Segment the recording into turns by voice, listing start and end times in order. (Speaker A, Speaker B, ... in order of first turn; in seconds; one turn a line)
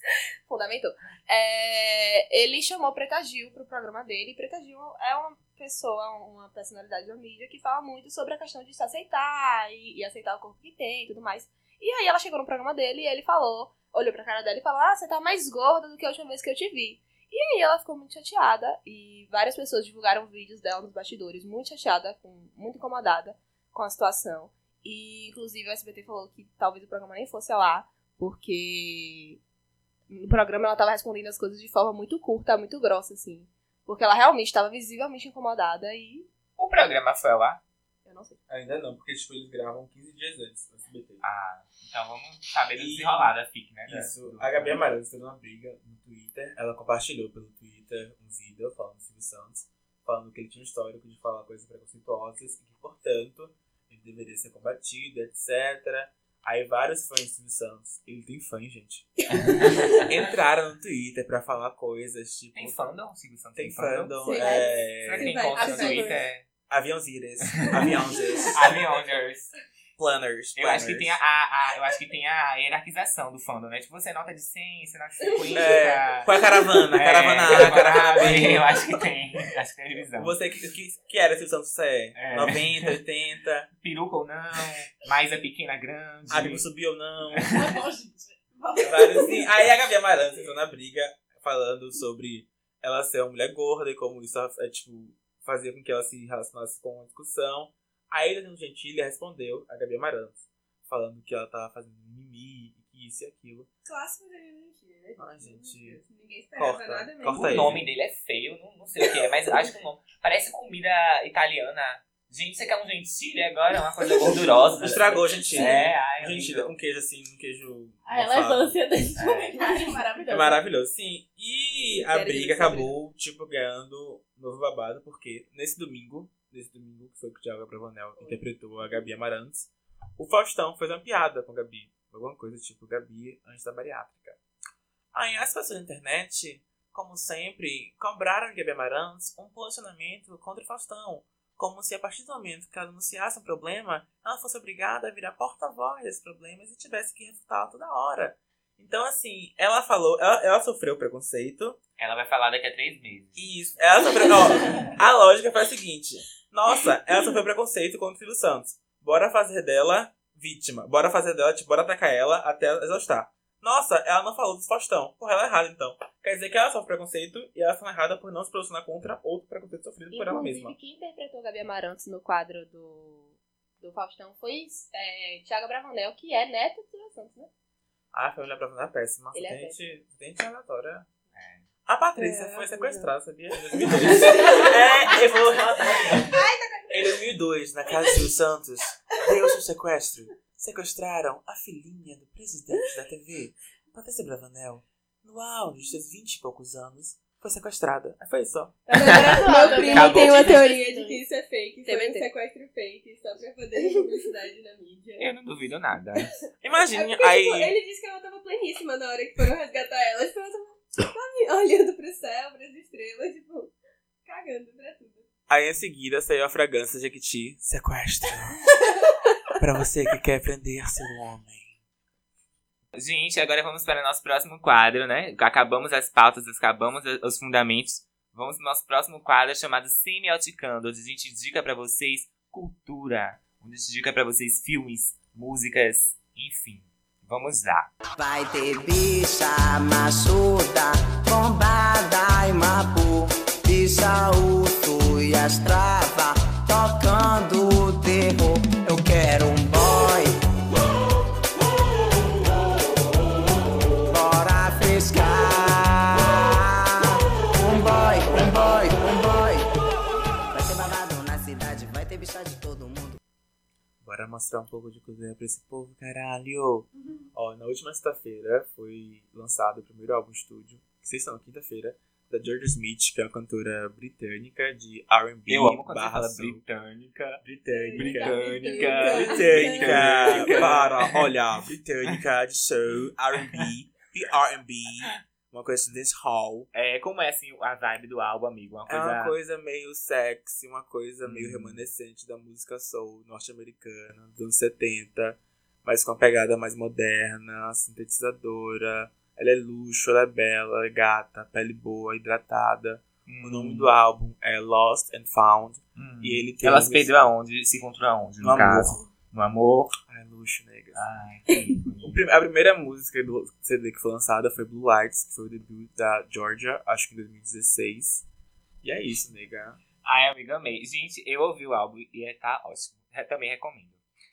Speaker A: 0.5-29.4
Speaker A: 30.1-36.3
Speaker B: 36.6-37.6
Speaker A: 38.0-38.4
Speaker C: 38.5-41.2
Speaker B: 41.2-44.8
Speaker C: 42.7-43.3
Speaker C: 43.9-59.1
Speaker C: 60.0-62.8
Speaker B: 62.5-64.2
Speaker C: 63.5-65.7
Speaker D: 64.2-66.2
Speaker E: 64.3-64.6
Speaker B: 65.0-66.4
Speaker C: 66.7-68.8
Speaker B: 67.5-67.9
Speaker B: 68.5-69.5
Speaker C: 70.0-71.2
Speaker B: 70.5-76.3
Speaker C: 75.5-78.8
Speaker B: 76.9-80.3
Speaker C: 80.1-83.7
Speaker B: 82.2-83.0
Speaker B: 83.8-86.7
Speaker C: 86.3-87.6
Speaker B: 87.4-87.7
Speaker E: 87.5-89.5
Speaker C: 88.8-103.7
Speaker D: 103.8-107.6
Speaker C: 105.2-106.0
Speaker C: 106.5-107.8
Speaker B: 107.3-116.7
Speaker C: 114.8-118.8
Speaker E: 118.0-120.6
Speaker B: 119.2-119.6
Speaker C: 120.3-134.4
Speaker D: 122.1-122.9
Speaker C: 135.1-151.8
Speaker B: 152.0-153.7
Speaker C: 153.3-170.8
Speaker A: 170.1-177.5
Speaker C: 178.1-181.1
Speaker A: 179.3-179.8
Speaker B: 181.3-181.7
Speaker C: 181.8-186.4
Speaker D: 182.4-183.0
Speaker C: 186.9-198.8
Speaker E: 198.9-201.2
Speaker B: 198.9-200.6
Speaker D: 199.0-205.2
Speaker A: 201.8-202.3
Speaker B: 205.2-206.3
Speaker C: 206.6-207.7
Speaker D: 206.9-213.7
Speaker D: 214.2-215.2
Speaker C: 215.5-218.6
Speaker C: 219.6-221.8
Speaker B: 222.9-237.9
Speaker F: 238.2-250.3
Speaker F: 254.0-259.7
Speaker F: 260.5-263.2
Speaker C: 264.0-276.6
Speaker B: 275.5-277.4
Speaker C: 277.4-286.7
Speaker D: 277.7-280.7
Speaker B: 277.9-281.3
Speaker B: 286.7-289.3
Speaker C: 288.9-307.1
Speaker B: 291.2-291.8
Speaker B: 303.2-303.9
Speaker B: 305.9-310.0
Speaker C: 308.4-309.0
Speaker C: 310.1-311.0
Speaker B: 310.9-312.2
Speaker C: 312.0-318.2
Speaker C: 318.8-319.8
Speaker B: 320.0-324.0